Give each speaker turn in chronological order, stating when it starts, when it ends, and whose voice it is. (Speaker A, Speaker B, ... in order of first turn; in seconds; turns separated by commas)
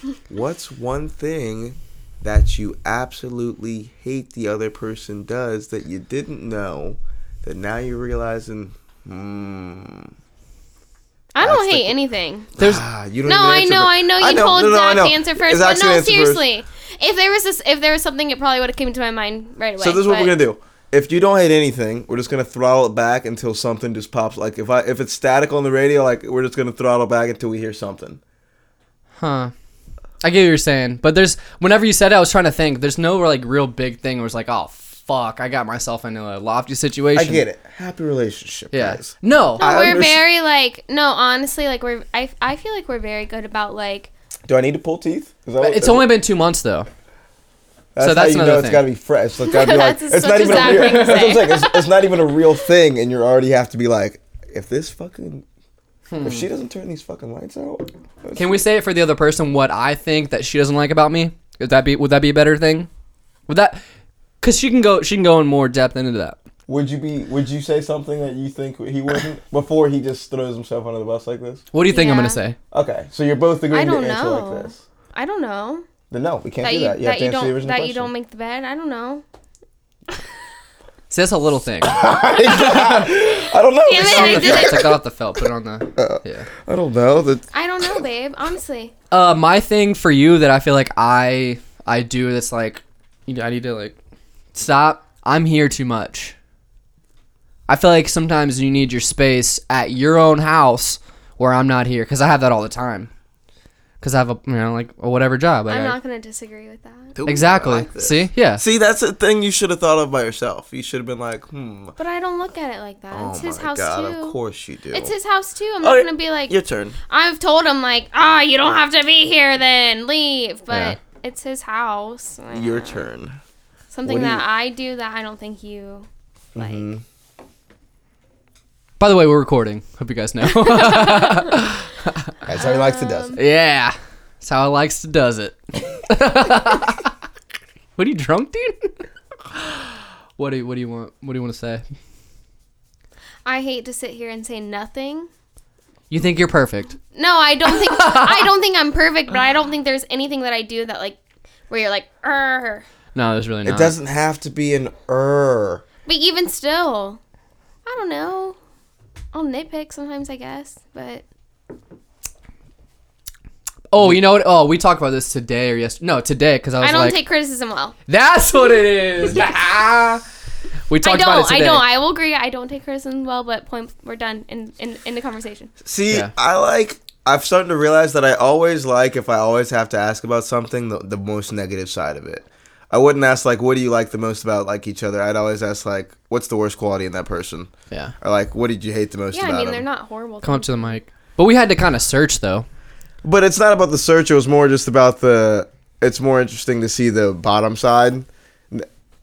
Speaker A: 0.3-10.1, Speaker B: 11.3-12.5, Speaker A: 11.4-11.9, Speaker A: 12.6-16.4, Speaker B: 13.2-20.3, Speaker A: 19.8-28.2, Speaker C: 29.2-29.5, Speaker C: 30.2-37.4, Speaker A: 37.1-40.2, Speaker C: 38.7-39.6, Speaker B: 39.6-44.1, Speaker A: 44.5-46.1, Speaker C: 45.6-46.9, Speaker A: 47.9-55.4, Speaker C: 48.0-48.8, Speaker B: 49.5-51.9, Speaker C: 50.5-51.3, Speaker C: 56.1-56.5, Speaker A: 56.2-58.6, Speaker C: 58.3-62.9, Speaker C: 63.5-63.8, Speaker C: 64.4-66.4, Speaker A: 66.7-71.6, Speaker C: 71.7-72.6, Speaker B: 71.9-72.4, Speaker A: 72.7-74.8, Speaker B: 73.7-75.8, Speaker A: 76.1-78.1, Speaker B: 76.6-79.2, Speaker C: 81.1-82.0, Speaker A: 81.8-84.9, Speaker C: 82.6-83.0, Speaker B: 83.8-84.9, Speaker C: 84.0-86.5, Speaker A: 86.0-88.0, Speaker B: 87.5-88.9, Speaker C: 89.1-94.0, Speaker C: 94.5-96.3, Speaker C: 97.7-103.1, Speaker C: 104.0-106.0, Speaker B: 105.7-107.2, Speaker A: 107.2-111.9, Speaker C: 107.2-108.6, Speaker B: 112.0-114.4, Speaker A: 113.1-115.1, Speaker B: 114.9-116.6, Speaker A: 115.8-117.0, Speaker B: 117.1-123.0, Speaker A: 120.7-121.0, Speaker A: 122.5-123.4, Speaker B: 123.9-126.8, Speaker A: 124.0-124.4, Speaker A: 126.5-127.0, Speaker C: 129.0-132.3, Speaker B: 130.6-131.5, Speaker A: 132.4-133.4, Speaker B: 132.5-133.4, Speaker C: 133.3-137.1, Speaker C: 138.0-138.9, Speaker C: 139.5-141.8, Speaker B: 143.4-145.3, Speaker C: 146.1-147.0, Speaker B: 147.1-151.2, Speaker C: 147.8-148.4, Speaker B: 151.7-152.8, Speaker C: 153.1-153.9, Speaker A: 153.6-155.8, Speaker B: 156.1-157.2, Speaker B: 157.8-158.6, Speaker B: 159.3-161.2, Speaker C: 163.9-167.2, Speaker B: 166.8-167.9, Speaker C: 168.1-170.2, Speaker C: 170.9-171.8, Speaker B: 171.0-175.7, Speaker A: 175.8-189.8, Speaker B: 189.3-191.0, Speaker C: 190.4-192.7, Speaker A: 193.2-198.9